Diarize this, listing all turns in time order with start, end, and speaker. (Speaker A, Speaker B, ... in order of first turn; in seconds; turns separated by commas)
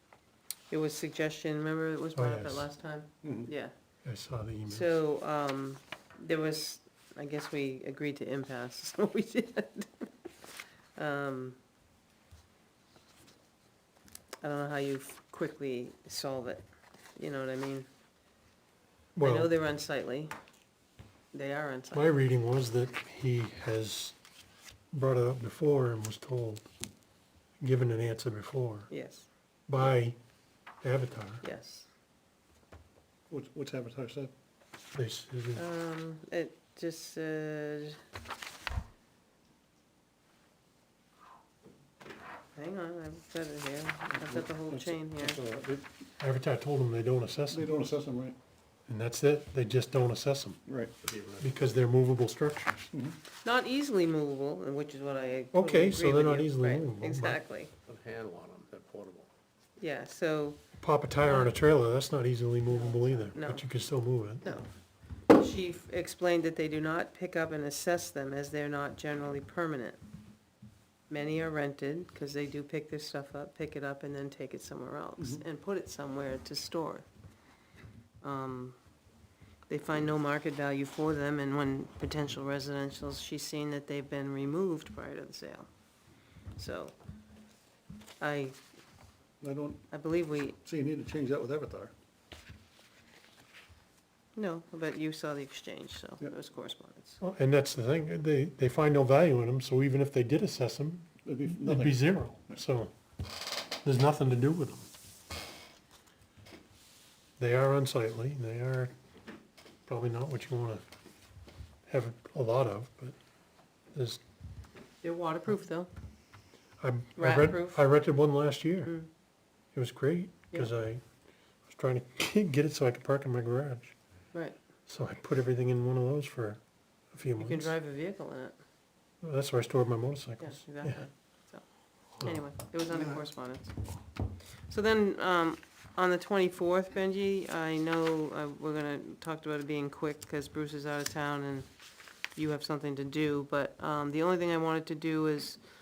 Speaker A: 0.7-3.7, Speaker B: 2.1-2.7, Speaker C: 3.2-3.5, Speaker B: 4.0-4.9, Speaker A: 4.7-10.1, Speaker A: 10.9-11.6, Speaker A: 14.4-17.9, Speaker B: 19.2-19.5, Speaker A: 19.2-20.3, Speaker A: 21.3-22.1, Speaker B: 21.9-24.2, Speaker B: 24.9-26.7, Speaker B: 27.6-28.9, Speaker A: 28.9-29.3, Speaker B: 29.7-30.2, Speaker B: 30.8-31.4, Speaker A: 31.4-31.9, Speaker C: 33.3-34.3, Speaker B: 34.9-35.6, Speaker A: 35.5-38.0, Speaker A: 42.5-45.4, Speaker C: 44.1-46.0, Speaker B: 46.2-47.6, Speaker C: 47.5-48.4, Speaker B: 48.9-50.7, Speaker C: 50.7-50.9, Speaker D: 51.0-51.6, Speaker B: 51.4-52.9, Speaker A: 53.4-57.7, Speaker B: 55.5-57.4, Speaker D: 57.9-59.3, Speaker A: 59.8-60.6, Speaker B: 60.8-64.6, Speaker A: 61.2-61.5, Speaker A: 62.7-63.6, Speaker A: 64.4-64.7, Speaker A: 65.3-70.0, Speaker A: 71.1-77.1, Speaker A: 78.2-78.8, Speaker A: 79.7-85.7, Speaker A: 86.6-86.9, Speaker A: 88.2-88.6, Speaker C: 89.4-89.8, Speaker A: 89.9-90.6, Speaker C: 90.6-91.9, Speaker A: 94.3-97.2, Speaker B: 97.2-102.9, Speaker C: 101.2-102.6, Speaker B: 103.8-104.9, Speaker B: 107.4-108.9, Speaker B: 109.9-110.8, Speaker B: 111.9-113.2, Speaker B: 113.9-114.2, Speaker A: 115.0-115.9, Speaker B: 116.8-118.9, Speaker A: 117.2-117.8, Speaker B: 119.7-121.0, Speaker B: 121.6-123.9, Speaker B: 124.9-127.7, Speaker A: 127.4-128.6, Speaker B: 129.2-131.1, Speaker A: 130.4-131.6, Speaker A: 132.2-133.7, Speaker A: 134.7-141.7, Speaker A: 142.3-145.6